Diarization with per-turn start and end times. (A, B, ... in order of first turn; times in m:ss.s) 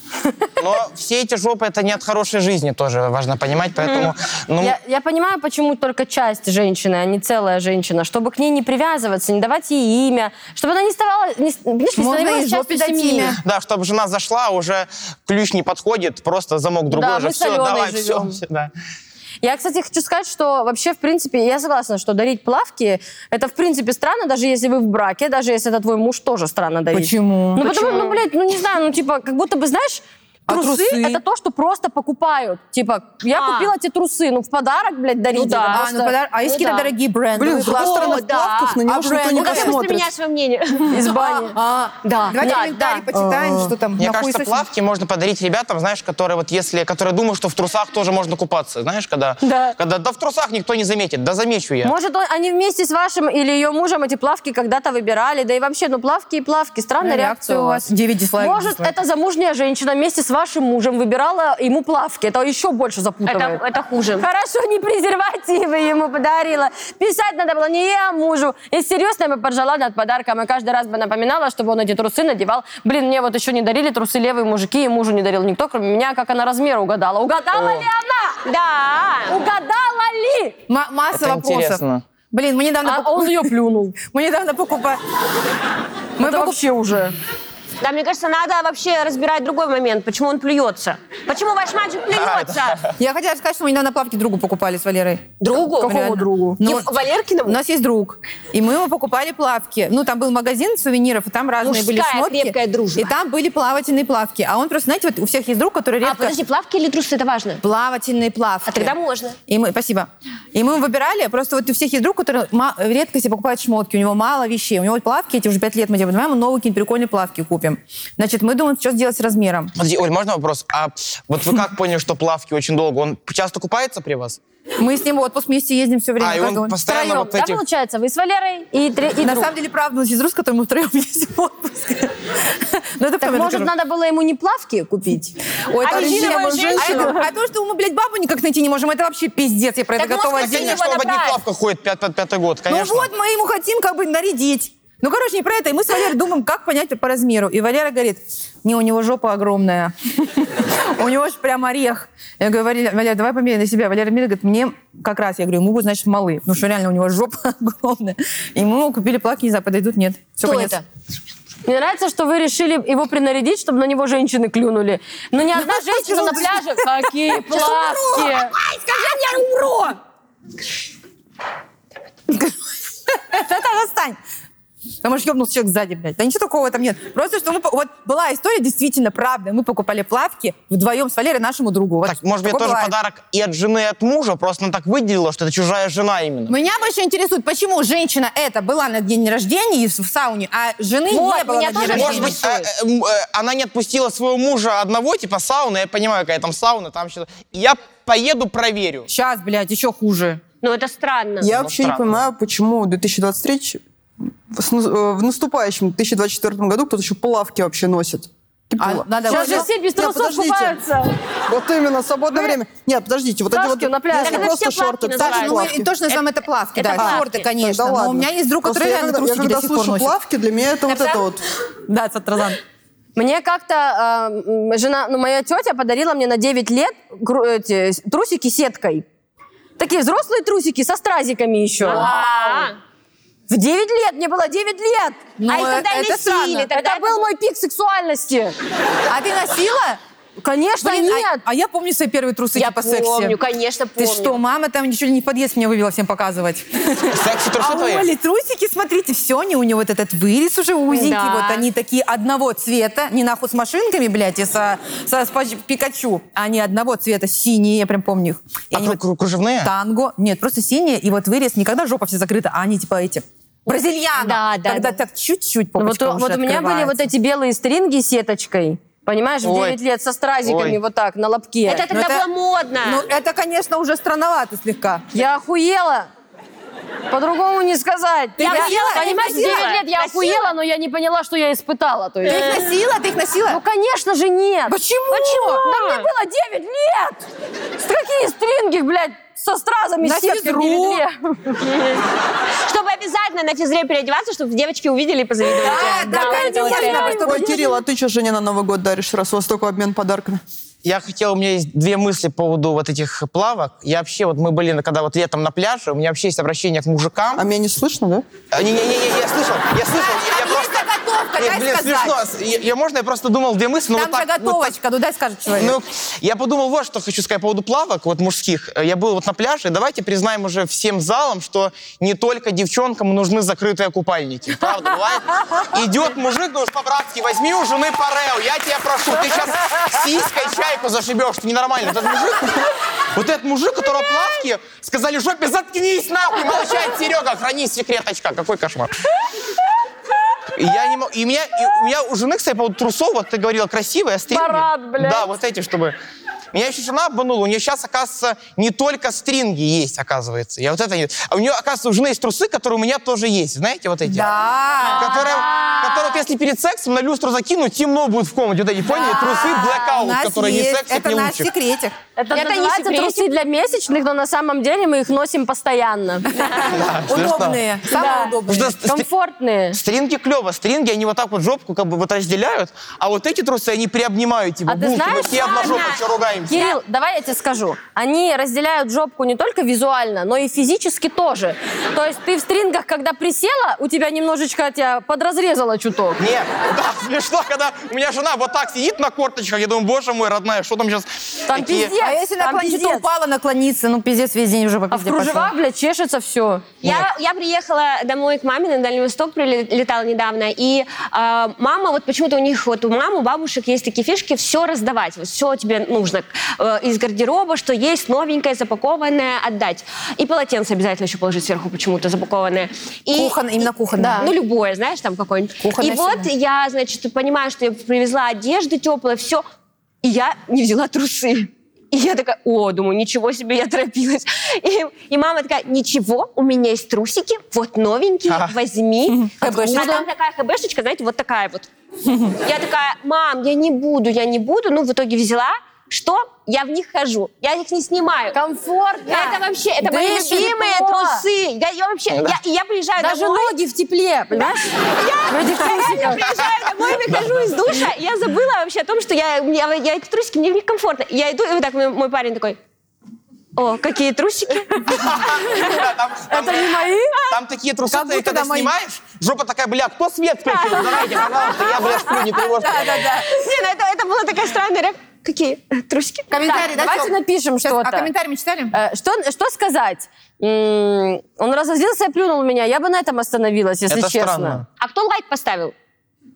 0:00.6-0:04.8 A
0:04.6-0:13.4 B
0:12.0-0:13.4 C
0:13.4-0:18.7 A
0:16.9-0:18.4 B
0:19.4-0:36.2 B
0:26.9-0:28.0 C
0:27.6-0:28.2 D
0:30.5-0:31.2 C
0:33.3-0:33.7 D
0:35.3-0:35.9 D
0:35.7-0:38.3 C
0:36.4-0:36.9 D
0:37.4-0:40.1 E
0:37.7-0:38.8 D
0:38.8-0:39.8 C
0:39.3-0:41.4 D
0:40.9-0:41.6 B
0:40.9-0:44.7 C
0:42.0-0:43.1 D
0:43.1-0:43.8 E
0:44.0-0:51.9 A
0:49.4-0:49.8 B
0:51.8-0:57.9 B
0:57.0-0:59.0 C
0:58.4-1:03.6 B
1:03.2-1:04.3 D
1:04.2-1:18.4 B
1:18.4-1:19.4 D
1:19.3-1:20.6 B
1:20.7-1:25.0 C
1:21.1-1:22.0 A
1:22.8-1:24.0 B
1:26.2-1:26.6 C
1:26.2-1:27.2 B
1:27.8-1:32.8 D
1:32.1-1:32.9 A
1:33.0-1:36.9 C
1:35.4-1:37.6 D
1:36.3-1:36.6 B
1:37.4-1:46.4 C
1:41.6-1:43.1 D
1:46.0-1:47.6 D
1:47.6-1:49.0 C
1:48.7-1:49.4 D
1:49.5-1:59.7 C
1:59.8-2:04.4 A
2:04.8-2:06.8 C
2:06.2-2:07.6 A
2:06.8-2:09.5 B
2:09.2-2:13.7 C
2:13.2-2:15.4 B
2:15.7-2:20.8 C
2:15.8-2:17.2 D
2:15.8-2:17.2 E
2:16.0-2:17.2 B
2:20.0-2:21.4 D
2:20.3-2:23.1 A
2:22.7-2:40.8 C
2:40.4-2:40.8 D
2:41.7-2:48.6 B
2:45.5-2:49.7 C
2:48.7-2:49.9 D
2:52.3-2:54.2 C
2:55.0-3:02.9 C
3:02.0-3:06.6 A
3:06.5-3:12.4 C
3:11.1-3:12.6 B
3:11.7-3:12.4 D
3:11.8-3:19.1 A
3:19.1-3:20.4 C
3:20.6-3:21.5 D
3:21.4-3:23.8 E
3:21.6-3:22.3 A
3:24.5-3:30.8 E
3:28.8-3:29.7 C
3:29.3-3:31.2 B
3:31.5-3:35.9 E
3:33.5-3:34.6 B
3:34.2-3:37.4 D
3:35.2-3:40.2 C
3:36.9-3:41.4 E
3:40.9-3:41.2 D
3:41.9-3:42.6 C
3:43.2-3:49.0 B
3:49.8-3:52.2 B
3:51.8-3:52.8 D
3:53.5-3:55.2 B
3:55.4-3:56.7 C
3:55.5-3:57.3 D
3:56.7-3:58.6 B
3:59.1-4:00.0 C
4:00.4-4:01.4 B
4:00.8-4:03.4 C
4:02.6-4:04.4 D
4:04.0-4:19.0 C
4:07.1-4:08.1 A
4:10.9-4:11.7 D
4:18.7-4:19.7 A
4:19.6-4:27.1 C
4:24.2-4:25.0 D
4:25.8-4:31.8 B
4:29.4-4:29.8 A
4:30.4-4:30.8 A
4:31.7-4:33.1 D
4:31.9-4:32.2 C
4:32.8-4:35.0 C
4:35.1-4:36.1 B
4:37.1-4:42.6 B
4:38.4-4:40.5 D
4:38.4-4:39.7 C
4:42.3-4:42.7 D
4:42.3-4:43.6 C
4:43.5-4:47.2 B
4:44.7-4:45.6 C
4:45.1-4:46.1 D
4:47.8-4:51.7 B
4:50.0-4:51.0 C
4:51.6-4:52.0 D
4:52.6-4:57.3 D
4:55.6-4:57.7 C
4:55.7-4:57.8 B
4:57.2-5:00.4 E
5:00.8-5:07.4 A
5:07.4-5:08.2 E
5:08.5-5:14.8 A
5:09.9-5:12.2 C
5:13.9-5:15.8 C
5:15.5-5:39.0 A
5:40.5-5:46.0 A
5:44.3-5:45.3 B
5:46.5-5:54.3 A
5:54.0-5:55.2 C
5:54.8-5:56.2 B
5:54.9-6:01.5 A
5:59.0-5:59.5 B
5:59.2-6:02.0 C
6:02.2-6:06.5 B
6:02.3-6:03.3 D
6:06.4-6:08.8 C
6:06.7-6:07.6 A
6:07.9-6:09.8 B
6:08.5-6:09.1 A
6:09.7-6:16.6 A
6:14.7-6:15.7 B
6:15.2-6:16.8 D
6:16.5-6:26.2 B
6:26.2-6:31.9 A
6:31.5-6:33.0 B
6:32.0-6:35.5 C
6:34.9-6:36.7 B
6:36.8-6:53.4 D
6:36.8-6:37.1 A
6:53.1-6:54.3 C
6:54.0-6:59.4 D
6:54.0-6:54.3 B
6:55.6-6:56.3 C
7:00.0-7:11.7 D
7:08.3-7:08.5 A
7:09.1-7:10.1 C
7:09.5-7:10.0 B
7:12.1-7:12.4 C
7:12.4-7:18.4 D
7:18.3-7:21.3 B
7:19.1-7:23.6 D
7:19.9-7:20.4 C
7:23.0-7:26.4 B
7:24.4-7:32.6 D
7:33.6-7:35.1 D
7:34.9-7:43.2 A
7:35.2-7:35.8 B
7:36.3-7:37.3 B
7:37.9-7:38.7 C
7:40.5-7:41.7 B
7:41.8-7:43.3 C
7:43.2-7:46.6 D
7:46.3-7:48.8 C
7:46.4-7:48.1 B
7:48.7-7:54.6 B
7:53.9-7:54.7 A
7:54.8-7:55.7 D